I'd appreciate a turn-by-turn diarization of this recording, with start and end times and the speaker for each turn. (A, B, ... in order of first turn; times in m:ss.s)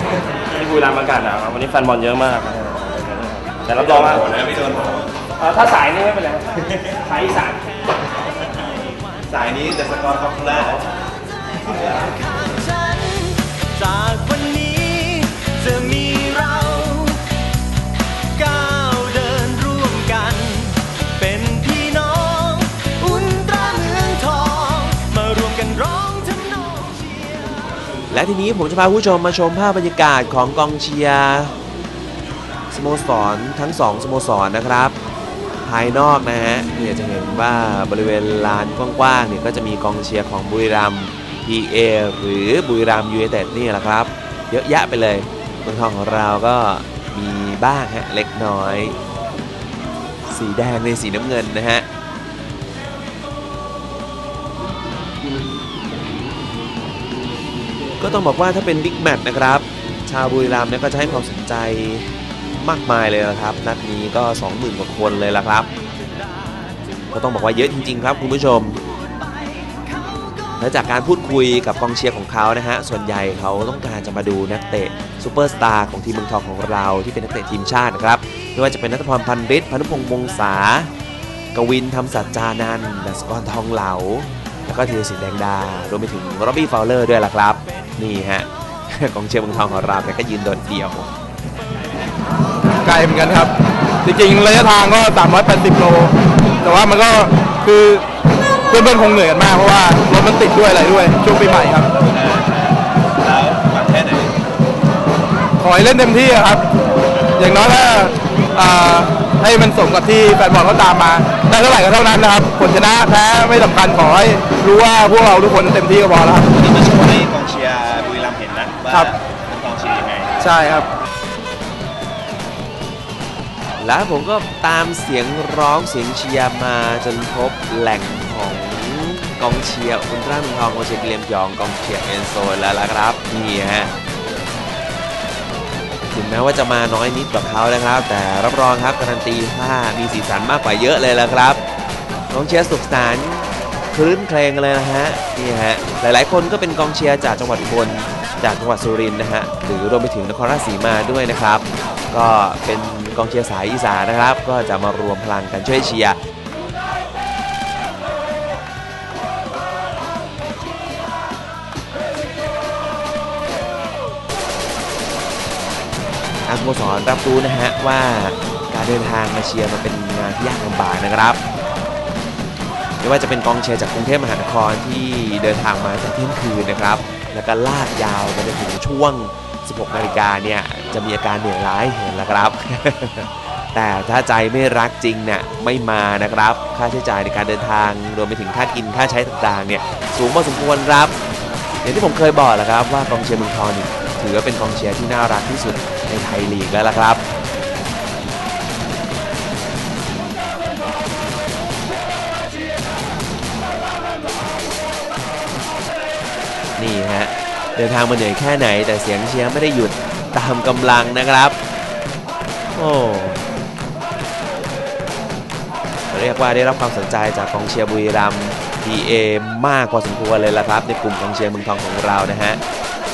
0:00.4-0:04.3 A
0:03.8-0:04.9 B
0:05.4-0:06.5 A
0:07.1-0:07.6 A
0:09.3-0:10.8 B
0:11.7-0:17.3 C
0:18.4-0:27.3 C
0:28.1-0:31.5 D
0:32.7-0:35.0 D
0:35.6-0:49.0 D
0:50.3-0:51.9 D
0:58.0-1:05.7 D
1:07.1-1:08.8 D
1:10.6-1:20.9 D
1:21.5-1:31.1 D
1:32.8-1:33.5 E
1:34.0-1:38.0 E
1:38.7-1:41.9 E
1:42.0-1:44.4 B
1:45.6-1:46.6 E
1:47.4-1:56.5 E
1:56.6-2:00.3 B
2:00.4-2:00.9 E
2:03.8-2:13.9 D
2:16.1-2:21.6 D
2:22.3-2:36.2 D
2:46.5-2:51.4 D
2:53.0-3:11.2 D
3:11.8-3:17.2 D
3:26.8-3:31.6 D
3:32.8-3:33.4 D
3:36.1-3:42.6 D